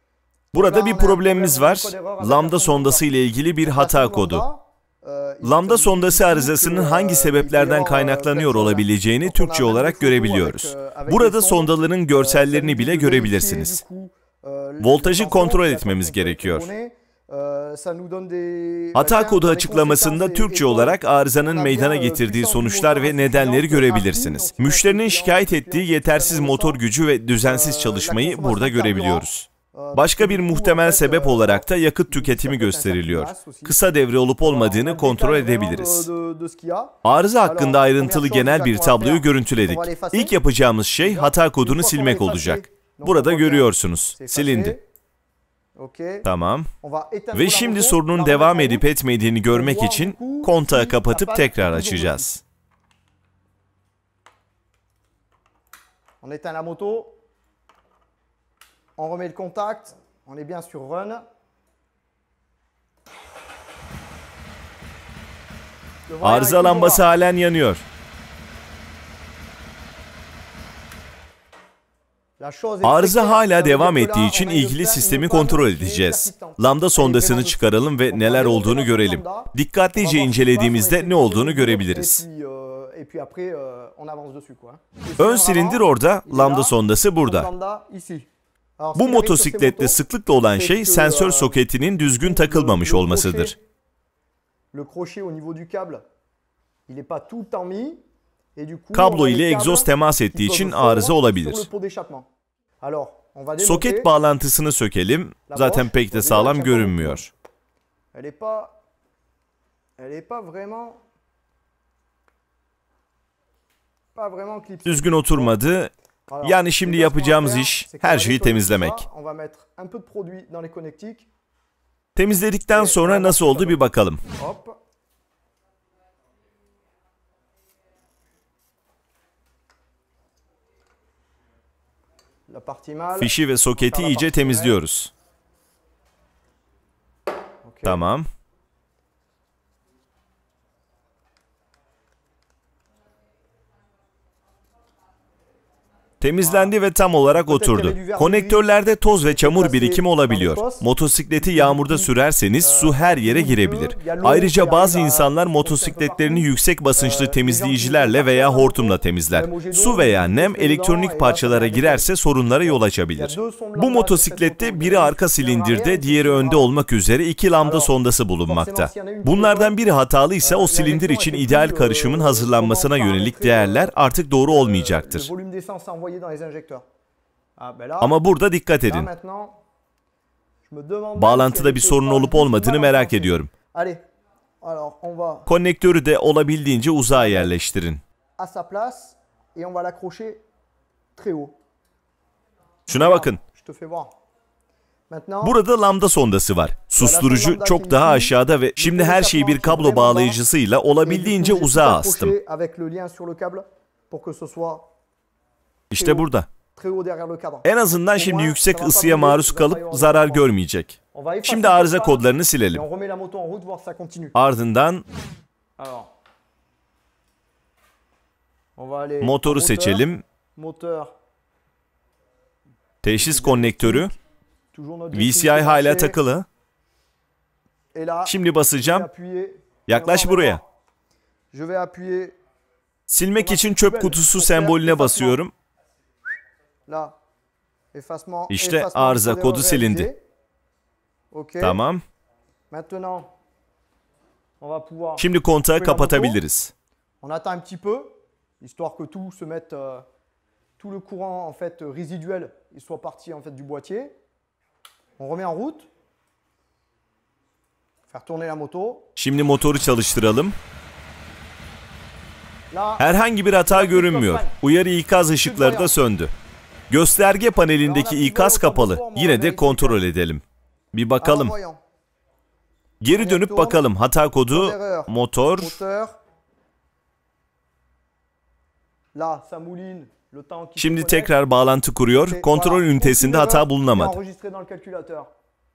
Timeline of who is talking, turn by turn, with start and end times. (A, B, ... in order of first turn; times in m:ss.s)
0:00.5-0:04.4 A
0:00.5-0:03.0 B
0:03.6-0:26.8 B
0:05.4-0:13.8 A
0:14.8-0:16.7 A
0:19.0-0:36.1 A
0:27.4-0:33.9 B
0:34.4-0:40.4 B
0:37.0-0:44.8 A
0:41.0-0:44.8 B
0:45.8-0:46.3 B
0:46.2-0:46.7 A
0:46.8-0:48.9 B
0:47.3-0:52.4 A
0:49.5-0:52.3 B
0:56.2-0:57.2 B
0:59.0-1:01.2 B
1:06.1-1:07.1 B
1:06.2-1:07.8 A
1:12.4-1:28.3 B
1:12.8-1:22.2 A
1:25.2-1:27.5 A
1:28.8-1:31.6 B
1:29.0-1:33.5 A
1:32.2-1:33.6 B
1:34.7-1:36.0 B
1:36.9-1:38.0 B
1:38.6-1:42.3 B
1:38.9-1:41.7 A
1:42.8-1:44.1 B
1:43.6-1:47.3 A
1:45.5-1:47.3 B
1:48.1-1:48.8 B
1:50.0-1:51.0 B
1:54.2-1:55.6 B
1:54.8-1:55.9 A
1:56.3-2:01.3 B
1:56.4-1:59.1 A
2:02.2-2:04.2 A
2:02.7-2:03.8 B
2:04.4-2:04.8 B
2:12.5-2:14.8 B
2:13.2-2:15.1 A
2:17.6-2:18.0 B
2:17.8-2:18.3 A
2:26.2-2:55.3 A
2:26.4-2:26.7 B
2:27.3-2:30.9 B
2:31.4-2:42.1 B
2:42.6-2:46.7 B
2:47.6-2:47.9 B
2:48.5-2:49.8 B
2:50.4-2:54.0 B
2:54.5-2:56.8 B
2:57.6-2:58.2 B
2:58.0-2:59.1 A
2:58.9-2:59.6 B
3:00.6-3:04.0 B
3:01.2-3:03.5 A
3:04.6-3:05.5 B
3:05.5-3:08.0 A
3:07.1-3:07.5 B
3:08.4-3:10.4 B
3:11.2-3:11.6 B
3:12.9-3:14.1 B
3:12.9-3:13.4 A
3:15.1-3:15.6 B
3:15.4-3:22.4 A
3:17.0-3:20.4 B
3:21.0-3:24.9 B
3:25.9-3:26.5 A
3:25.9-3:30.5 B
3:27.6-3:32.8 A
3:31.1-3:34.4 B
3:34.4-3:35.0 A
3:35.8-3:36.1 B
3:38.8-3:41.1 B
3:39.2-3:40.2 A
3:43.0-3:44.1 A
3:43.2-3:44.2 B
3:44.7-3:46.2 B
3:45.1-3:46.5 A
3:47.9-3:50.6 B
3:48.3-3:49.1 A
3:49.9-3:50.6 A
3:51.5-3:52.4 B
3:53.1-3:55.5 A
3:53.4-3:55.4 B
3:56.9-3:57.2 B
3:57.9-4:00.2 B
3:58.5-4:00.1 A
4:01.3-4:01.8 B
4:01.6-4:02.0 A
4:02.7-4:03.3 B
4:04.6-4:06.4 B
4:05.2-4:06.7 A
4:07.2-4:10.0 B
4:10.8-4:14.2 B
4:15.2-4:15.9 B
4:18.1-4:19.1 B
4:19.2-4:20.6 A
4:22.7-4:23.1 B
4:23.0-4:26.3 A
4:23.6-4:24.6 B
4:25.4-4:25.9 B
4:26.9-4:31.6 A
4:27.8-4:30.1 B
4:31.2-4:31.8 B
4:33.0-4:35.8 A
4:33.2-4:33.8 B
4:34.5-4:36.1 B
4:39.2-4:41.4 B
4:40.8-4:44.2 A
4:42.3-4:45.3 B